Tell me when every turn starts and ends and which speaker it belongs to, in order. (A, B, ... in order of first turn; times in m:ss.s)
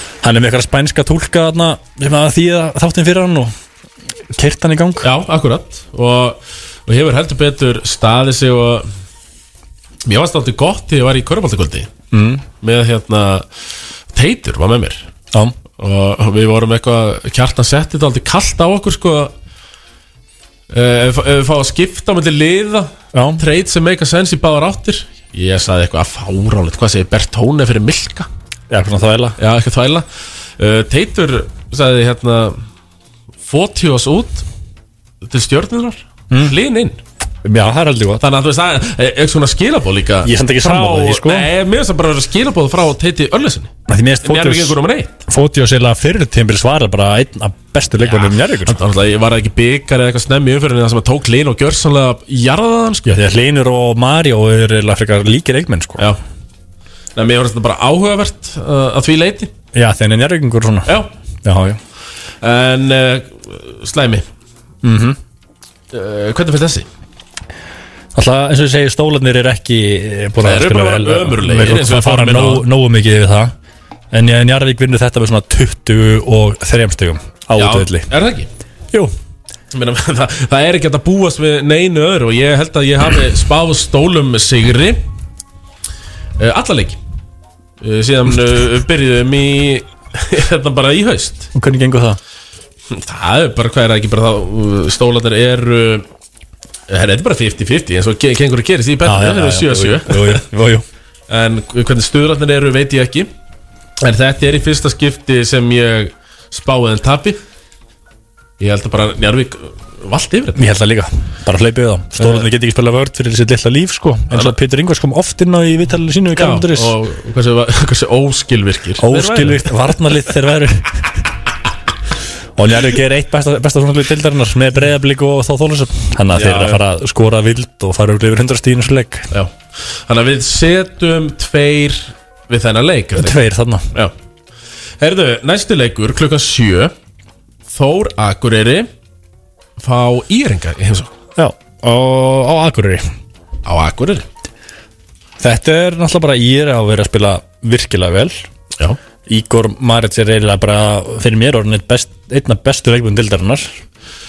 0:00.2-0:03.5 A
0:04.3-0:05.1 A
0:05.0-0:08.9 B
0:10.0-0:11.9 B
0:12.1-0:12.4 A
0:12.6-0:13.4 B
0:14.1-0:15.0 B
0:15.8-0:19.3 B
0:20.7-0:28.3 B
0:23.1-0:23.4 A
0:28.7-0:29.4 A
0:29.4-0:30.0 B
0:30.6-0:32.6 B
0:33.4-0:34.4 B
0:35.2-0:37.0 B
0:36.3-0:36.6 A
0:37.4-0:38.2 A
0:38.2-0:43.7 B
0:40.2-0:41.4 A
0:43.9-0:44.7 A
0:44.2-0:45.2 B
0:45.3-0:48.8 A
0:48.0-0:53.1 B
0:53.0-0:56.1 A
0:57.2-0:59.5 B
0:59.7-1:01.8 A
1:02.4-1:04.2 B
1:04.8-1:05.2 A
1:05.9-1:06.9 B
1:08.1-1:13.5 A
1:10.4-1:12.6 B
1:14.1-1:18.1 A
1:17.5-1:18.5 B
1:19.7-1:25.0 B
1:26.4-1:27.0 B
1:27.8-1:31.5 B
1:31.5-1:32.2 A
1:32.9-1:36.0 B
1:36.9-1:40.4 B
1:39.0-1:40.8 A
1:41.3-1:43.3 B
1:44.0-1:47.4 B
1:48.6-1:50.7 B
1:50.6-1:56.9 A
1:52.2-1:52.4 B
1:56.4-2:00.1 B
1:59.0-2:01.1 A
2:02.6-2:09.3 A
2:06.3-2:06.8 B
2:09.3-2:13.4 B
2:13.2-2:13.9 A
2:15.0-2:16.9 B
2:17.7-2:18.9 B
2:19.8-2:21.1 B
2:21.4-2:23.1 A
2:23.6-2:24.2 B
2:25.4-2:28.4 A
2:29.3-2:33.7 A